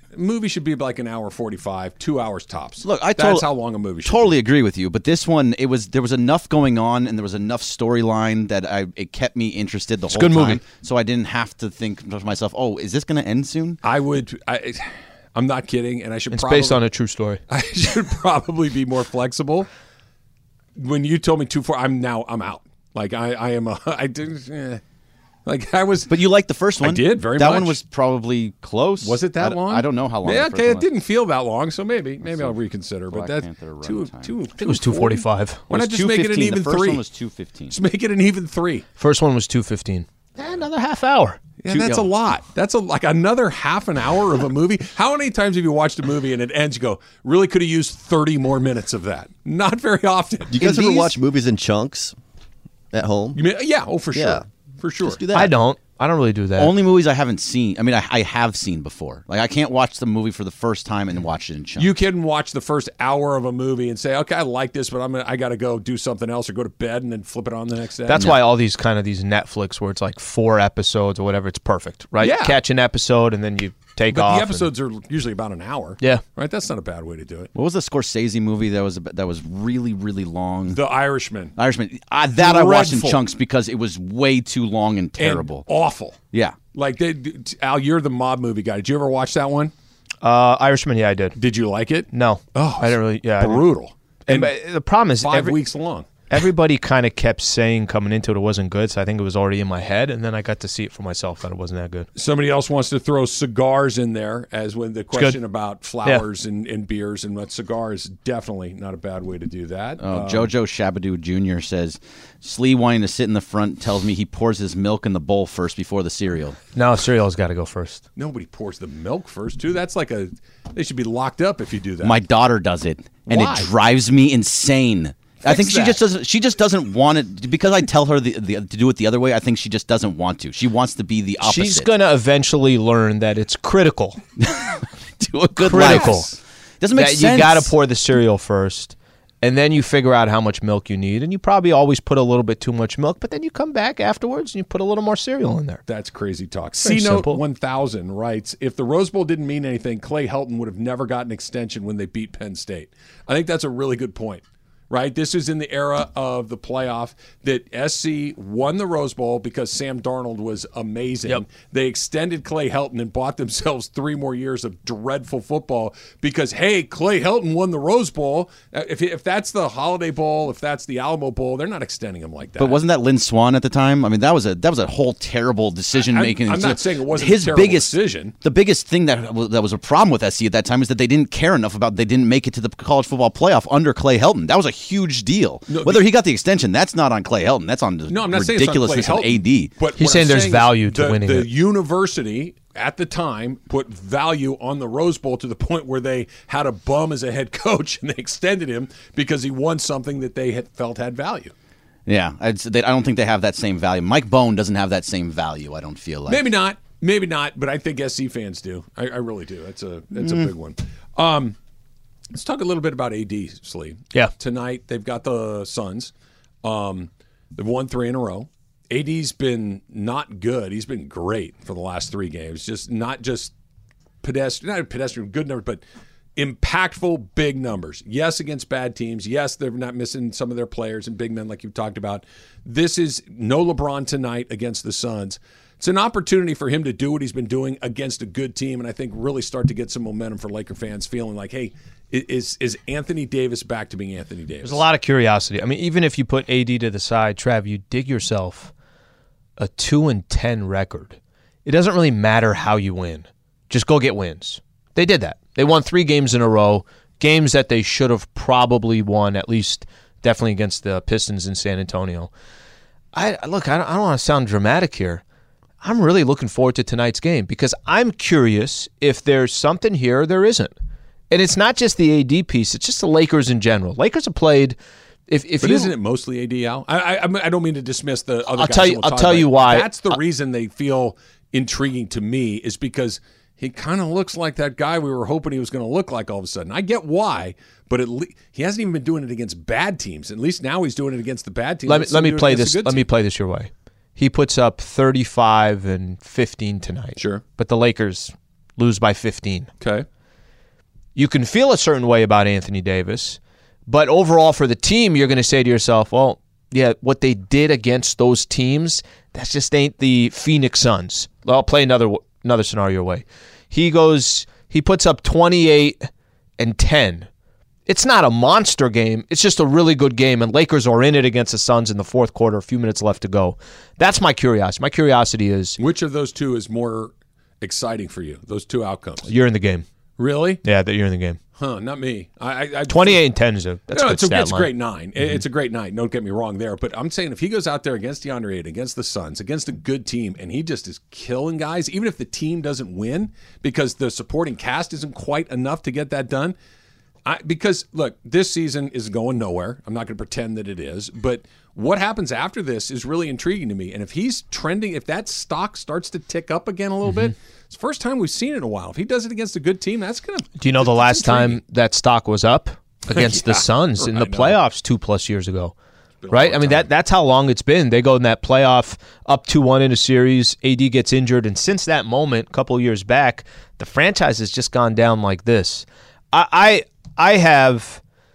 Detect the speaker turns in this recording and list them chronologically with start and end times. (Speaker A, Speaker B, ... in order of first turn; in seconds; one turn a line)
Speaker A: 0.1-4.3
Speaker B: 2.8-3.5
Speaker B: 4.0-13.8
Speaker C: 10.1-10.6
Speaker A: 13.8-16.8
Speaker C: 16.3-17.4
Speaker A: 17.5-19.7
Speaker A: 20.8-24.8
Speaker A: 25.4-26.1
Speaker B: 26.1-30.9
Speaker A: 26.8-27.8
Speaker A: 29.0-37.0
Speaker B: 32.2-34.3
Speaker C: 34.6-35.7
Speaker B: 35.7-37.7
Speaker A: 37.7-38.8
Speaker C: 39.0-41.4
Speaker A: 41.6-51.1
Speaker B: 41.7-42.1
Speaker D: 50.5-52.1
Speaker D: 52.9-53.4
Speaker A: 53.3-55.2
Speaker D: 54.1-54.4
Speaker D: 55.0-55.5
Speaker C: 55.3-56.7
Speaker B: 56.6-61.9
Speaker A: 61.8-68.2
Speaker C: 68.1-74.7
Speaker A: 72.2-72.6
Speaker A: 74.1-77.5
Speaker B: 77.5-80.8
Speaker A: 80.7-81.5
Speaker B: 81.5-85.7
Speaker A: 82.4-83.2
Speaker A: 85.2-86.2
Speaker A: 86.7-89.7
Speaker C: 90.2-91.3
Speaker A: 91.3-94.5
Speaker C: 92.1-93.7
Speaker C: 94.2-95.6
Speaker A: 95.2-96.1
Speaker C: 96.3-102.1
Speaker A: 102.2-110.5
Speaker B: 110.0-116.6
Speaker C: 116.8-118.0
Speaker A: 118.2-122.2
Speaker B: 122.0-131.9
Speaker A: 123.3-123.7
Speaker A: 125.4-126.0
Speaker C: 131.4-134.2
Speaker B: 134.4-137.7
Speaker C: 135.6-136.3
Speaker A: 135.7-136.2
Speaker C: 136.9-145.8
Speaker A: 145.9-172.8
Speaker C: 146.8-147.4
Speaker B: 172.6-189.7
Speaker A: 176.1-178.3
Speaker A: 185.7-186.0
Speaker A: 188.1-201.5
Speaker C: 190.0-191.5
Speaker B: 202.1-206.4
Speaker A: 206.3-211.6
Speaker B: 210.2-210.5
Speaker A: 212.3-216.1
Speaker A: 216.6-223.5
Speaker A: 224.2-225.8
Speaker A: 226.3-244.8
Speaker C: 244.6-248.7
Speaker C: 249.6-262.3
Speaker C: 263.1-265.2
Speaker C: 265.8-270.7
Speaker C: 271.3-274.8
Speaker C: 275.3-275.9
Speaker A: 275.6-293.0
Speaker C: 278.5-280.2
Speaker C: 291.9-299.7
Speaker A: 297.2-297.4
Speaker A: 299.8-300.1
Speaker C: 301.1-317.3
Speaker C: 317.9-325.8
Speaker A: 325.8-329.3
Speaker C: 329.2-329.9
Speaker A: 330.2-330.6
Speaker C: 330.6-331.4
Speaker A: 331.6-333.2
Speaker C: 332.9-334.7
Speaker A: 333.9-346.5
Speaker A: 347.2-361.6
Speaker C: 357.1-357.3
Speaker C: 360.6-365.7
Speaker A: 363.1-364.6
Speaker A: 366.2-366.9
Speaker C: 366.3-378.0